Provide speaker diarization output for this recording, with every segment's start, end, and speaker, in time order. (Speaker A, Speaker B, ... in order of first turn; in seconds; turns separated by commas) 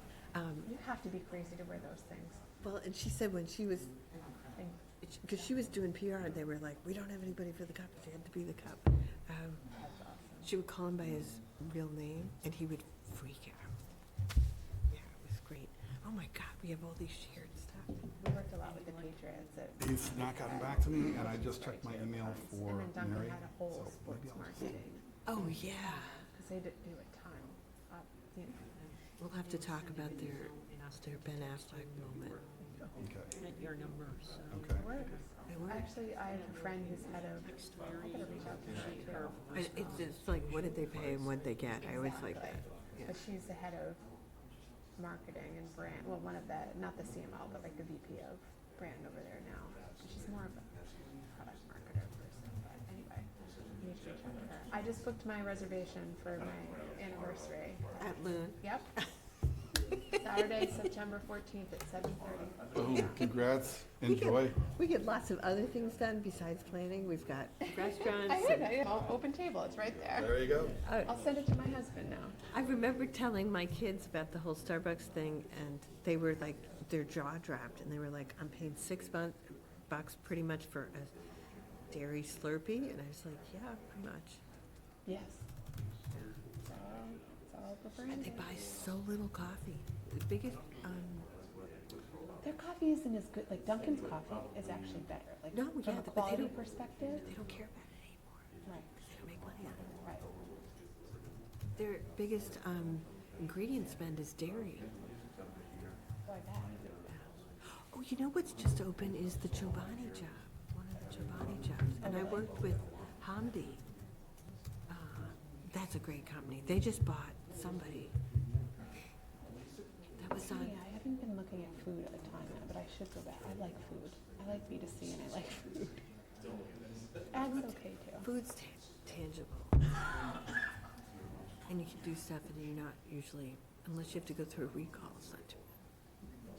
Speaker A: 0.3-0.7, Speaker B: 0.7-2.4, Speaker A: 2.6-3.9, Speaker B: 4.5-4.8, Speaker A: 5.0-9.7, Speaker B: 9.8-10.5, Speaker A: 10.4-13.7, Speaker A: 14.9-18.0, Speaker B: 18.2-25.0, Speaker C: 19.8-24.8, Speaker A: 25.3-26.3, Speaker B: 26.3-28.6, Speaker A: 29.2-32.4, Speaker D: 29.3-32.5, Speaker C: 33.0-33.3, Speaker D: 33.3-35.3, Speaker C: 34.5-34.9, Speaker B: 34.7-39.4, Speaker A: 35.5-35.9, Speaker D: 37.3-40.7, Speaker A: 39.5-43.2, Speaker B: 41.8-44.0, Speaker B: 45.0-53.3, Speaker B: 53.8-58.1, Speaker A: 58.0-58.7, Speaker B: 58.6-58.9, Speaker B: 60.2-63.2, Speaker C: 62.7-64.5, Speaker A: 64.0-68.8, Speaker B: 68.2-72.3, Speaker C: 70.1-70.7, Speaker A: 70.8-71.1, Speaker A: 72.5-81.1, Speaker A: 81.9-84.4, Speaker B: 85.0-85.4, Speaker B: 86.7-88.5, Speaker A: 88.1-91.3, Speaker B: 92.4-97.3, Speaker A: 95.5-96.6, Speaker A: 97.2-98.4, Speaker A: 99.0-99.9, Speaker A: 101.7-104.9, Speaker B: 106.2-106.8, Speaker A: 107.1-113.8, Speaker B: 112.0-112.5, Speaker A: 114.9-118.1, Speaker A: 120.2-120.8, Speaker B: 120.5-126.0, Speaker B: 127.3-128.3, Speaker A: 128.2-130.0, Speaker A: 131.7-135.6